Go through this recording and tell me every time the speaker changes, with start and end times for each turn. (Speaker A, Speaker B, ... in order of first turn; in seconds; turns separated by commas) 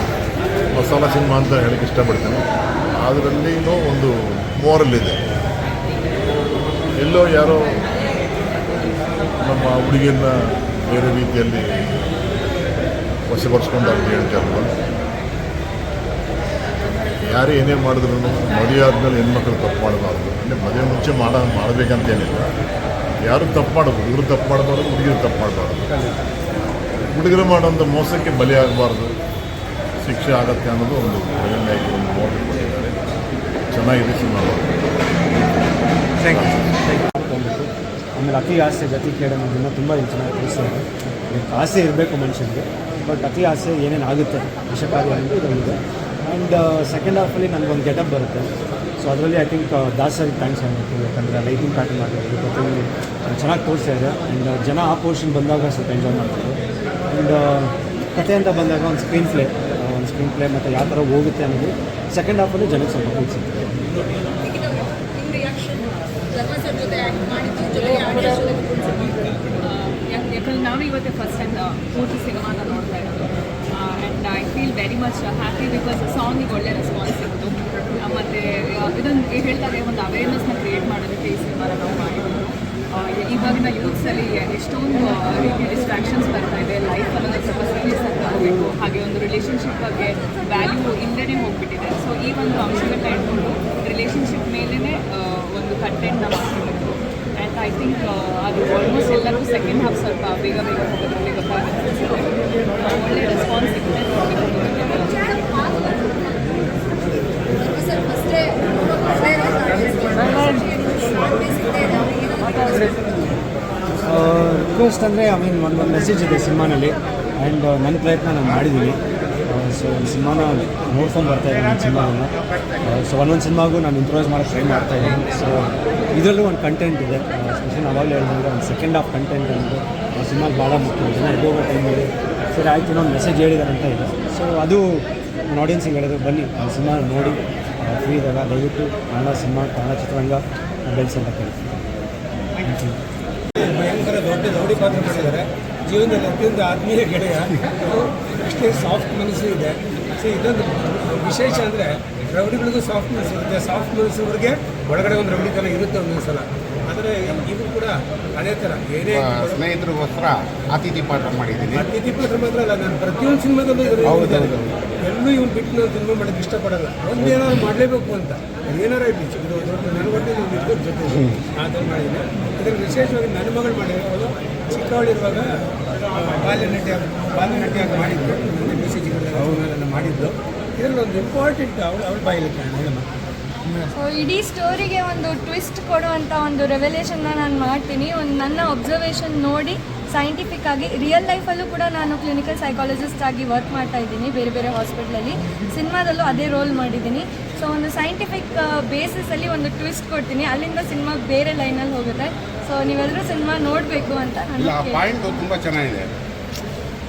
Speaker A: 0.7-2.4, Speaker A: 3.0-5.2, Speaker A: 7.0-7.8, Speaker A: 9.4-10.3, Speaker A: 10.9-11.7, Speaker A: 13.3-14.7, Speaker A: 17.2-22.5, Speaker A: 23.3-26.0, Speaker A: 27.1-29.1, Speaker A: 30.0-33.0, Speaker A: 33.7-34.8, Speaker A: 36.2-36.6, Speaker B: 36.8-56.6, Speaker B: 57.1-63.7, Speaker C: 64.4-69.4, Speaker D: 69.6-105.4, Speaker C: 105.2-106.8, Speaker C: 107.4-113.0, Speaker B: 114.0-141.8, Speaker B: 142.6-143.0, Speaker E: 143.5-159.6, Speaker F: 159.1-161.9, Speaker E: 161.8-175.5, Speaker F: 164.0-164.8, Speaker E: 176.1-183.1, Speaker G: 183.9-205.0, Speaker F: 204.6-206.1